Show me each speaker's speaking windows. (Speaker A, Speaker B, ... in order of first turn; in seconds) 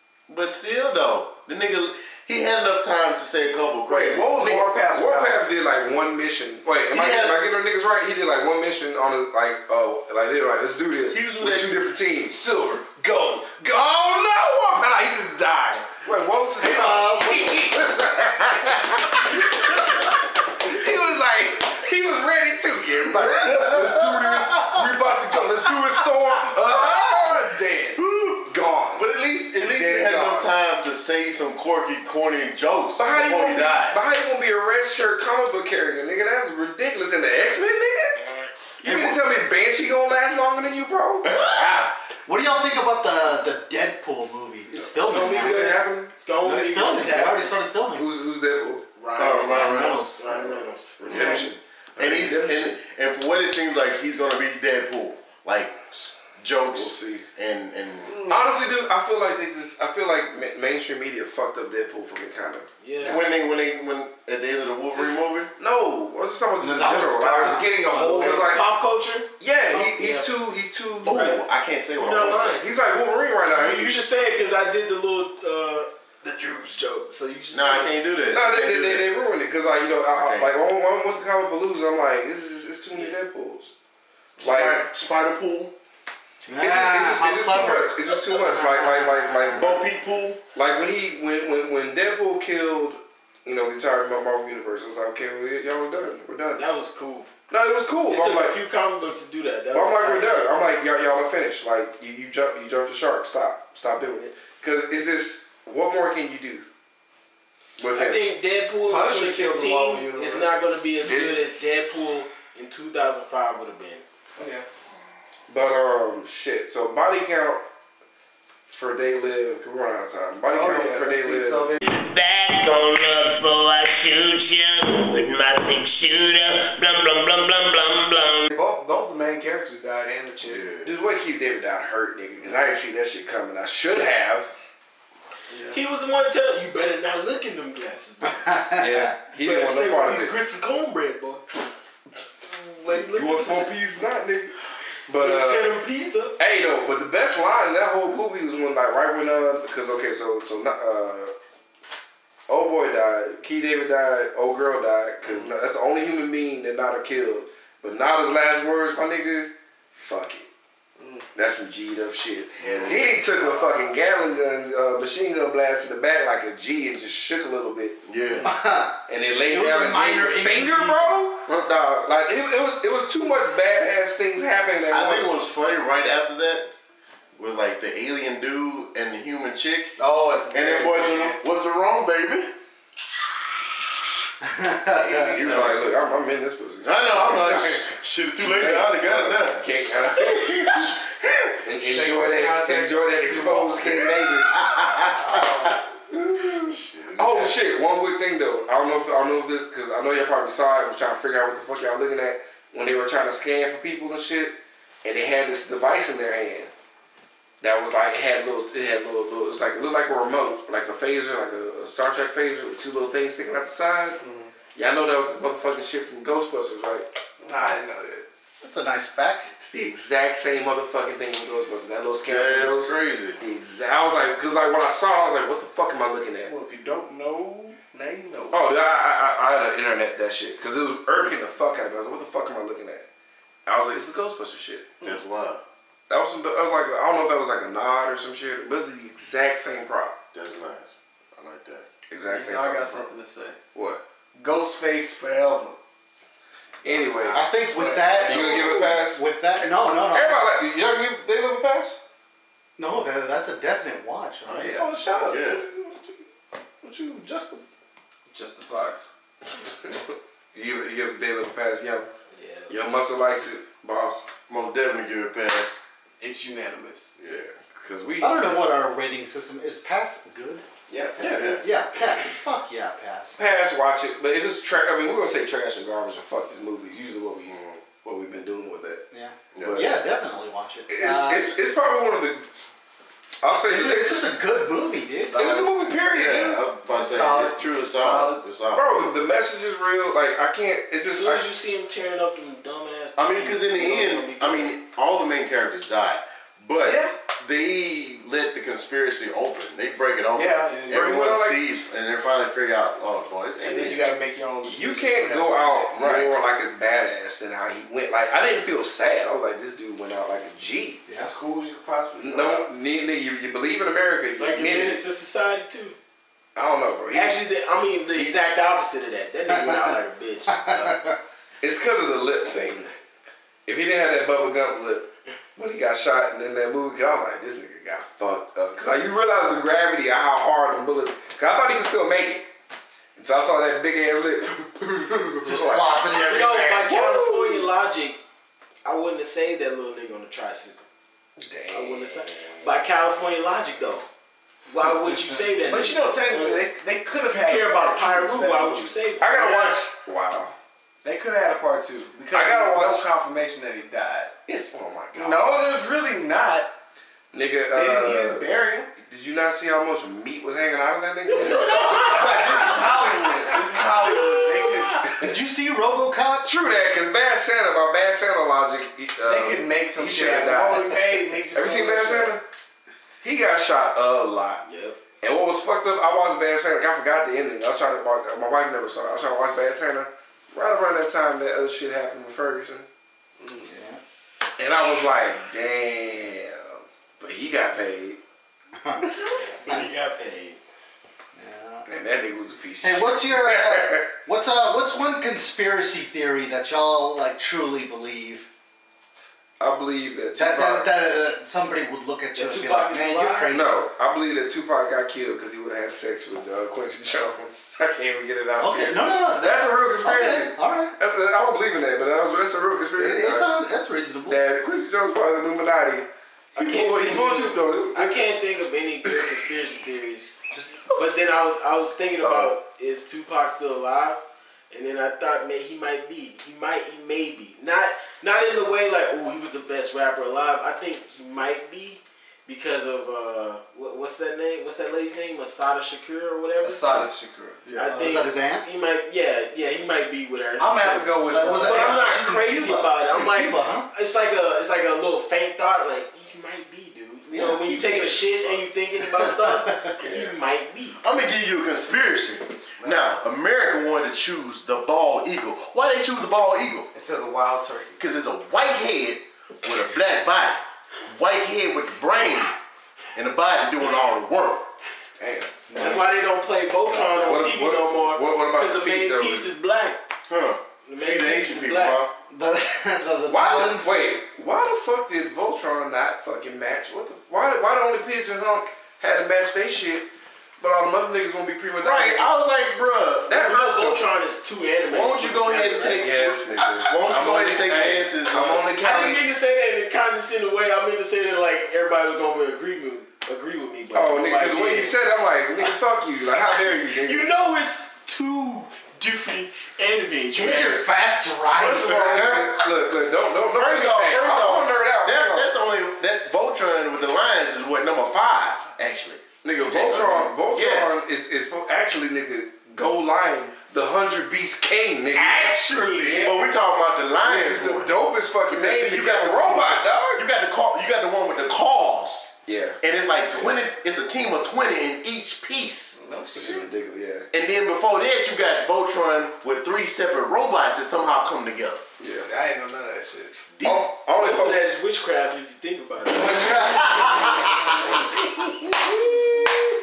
Speaker A: 0.3-4.7, 6.9-7.4, 11.1-11.8, 28.0-28.4, 29.0-34.0, 38.9-39.2, 41.2-41.9, 49.2-58.3, 63.0-65.5, 71.0-72.6, 77.5-79.1, 80.1-80.5, 84.4-85.7, 89.5-90.4, 130.4-130.9, 162.6-163.2, 168.1-168.5, 174.9-176.7, 177.4-179.9, 180.5-182.5, 185.3-185.8, 186.8-191.6, 193.8-195.8, 196.5-197.6, 222.2-223.4, 235.0-235.6, 240.3-241.9, 255.2-255.6, 264.5-265.8, 267.2-267.6, 271.2-271.6, 277.5-277.8, 279.6-279.8, 286.1-289.0, 293.2-304.1, 305.9-306.3, 451.0-456.9, 458.0-462.6, 463.1-464.7, 470.3-472.1, 481.8-483.3, 484.9-488.9, 503.5-510.9, 516.1-518.0, 518.5-526.0, 527.3-531.9, 533.6-534.0
Speaker B: 3.9-29.1, 29.6-30.5, 33.0-38.2, 38.8-41.3, 44.8-46.1, 47.9-48.9, 51.0-52.8, 56.7-57.2, 58.3-62.7, 65.6-68.7, 69.4-71.4, 72.6-74.0, 78.3-83.7, 84.4-84.9, 86.6-89.8, 90.5-96.7, 97.5-98.6, 99.7-106.7, 107.8-108.2, 111.0-111.4, 115.5-117.6, 118.7-121.8, 130.8-134.5, 138.8-140.3, 142.9-144.5, 145.1-145.8, 146.4-151.3, 152.5-160.5, 161.3-168.0, 169.1-175.3, 185.3-191.0, 191.6-194.5, 196.1-206.7, 207.6-214.2, 214.8-217.1, 219.6-226.5, 228.5-233.1, 233.7-235.0, 236.1-240.2, 242.1-243.1, 243.7-244.0, 246.8-247.5, 248.1-252.0, 254.5-256.2, 256.8-257.6, 259.9-262.1, 262.7-264.3, 267.7-268.7, 271.2-271.6, 273.4-279.0, 280.9-282.5, 283.4-284.3, 285.3-286.6, 288.7-291.4, 300.9-301.6, 304.6-311.1, 312.2-315.0, 316.6-317.4, 321.6-323.0, 323.7-332.4, 333.2-336.2, 336.9-337.4, 341.4-342.6, 349.2-350.6, 352.3-353.1, 354.5-355.6, 357.3-363.7, 365.0-365.3, 366.4-372.4, 373.2-374.6, 375.2-382.9, 384.6-388.2, 391.9-394.1, 399.6-401.0, 403.5-413.5, 414.3-418.4, 422.2-422.5, 450.0-450.4, 465.2-466.0, 467.2-469.5, 473.3-480.1, 480.6-482.3, 483.3-484.0, 486.0-489.3, 493.9-497.4, 501.6-505.5, 509.4-516.4, 517.2-520.3, 522.5-522.8, 523.3-523.6, 526.4-527.3, 532.0-532.3, 533.6-534.6
Speaker C: 3.9-5.4, 16.6-17.2, 108.8-110.6, 114.4-114.7, 120.5-121.8, 128.5-130.7, 135.5-135.8, 161.0-161.3, 162.6-163.9, 180.0-181.4, 185.1-185.6, 191.8-194.0, 195.3-195.8, 214.2-214.5, 217.4-218.3, 226.5-228.7, 242.3-243.6, 244.3-245.8, 246.8-249.0, 254.5-255.3, 258.3-259.1, 266.2-267.1, 270.9-271.6, 285.1-286.0, 286.9-288.4, 296.8-297.1, 300.4-301.5, 303.6-306.3, 311.2-312.7, 345.6-348.9, 351.1-354.3, 355.1-356.7, 357.7-358.9, 361.3-365.2, 369.2-372.4, 436.6-438.1, 440.6-442.2, 452.8-453.2, 456.9-458.0, 515.1-516.4, 525.9-526.7, 532.0-533.5
Speaker D: 16.8-17.5, 42.3-45.8, 46.4-48.1, 49.4-50.1, 66.6-68.6, 86.5-89.8, 138.3-139.1, 168.4-171.3, 184.4-185.5, 218.6-219.5, 247.3-250.4, 252.8-254.8, 268.2-270.6, 271.6-273.4, 279.1-281.5, 283.6-285.3, 319.5-319.9, 320.5-321.2, 335.4-336.9, 344.9-345.4, 365.2-366.5, 383.5-384.0, 388.8-389.8, 391.3-391.9, 392.8-398.5, 400.4-403.8, 408.6-410.9, 413.0-414.4, 420.5-420.8, 437.9-438.7, 441.3-443.9, 447.3-448.2, 449.0-449.9, 465.7-466.0, 466.9-467.4, 472.3-474.0, 500.3-502.6, 536.1-538.2
Speaker E: 45.0-47.6, 49.0-51.4, 62.8-63.3, 68.1-70.3, 72.0-72.6, 73.5-78.0, 96.6-97.3, 98.1-100.3, 107.9-114.0, 135.7-138.7, 139.4-141.4, 142.4-143.7, 145.1-146.4, 262.3-262.8, 291.0-294.8, 314.4-316.0, 317.1-321.0, 336.1-338.2, 338.9-340.8, 341.7-344.1, 344.7-346.7, 347.4-349.8, 361.4-362.5, 364.1-364.6, 374.6-375.0, 389.0-390.6, 402.4-403.5, 416.6-420.4, 420.9-437.1, 437.8-451.0, 465.7-470.0, 470.8-472.0, 483.3-486.4, 488.8-495.0, 496.3-500.9, 534.1-537.4
Speaker F: 121.8-128.5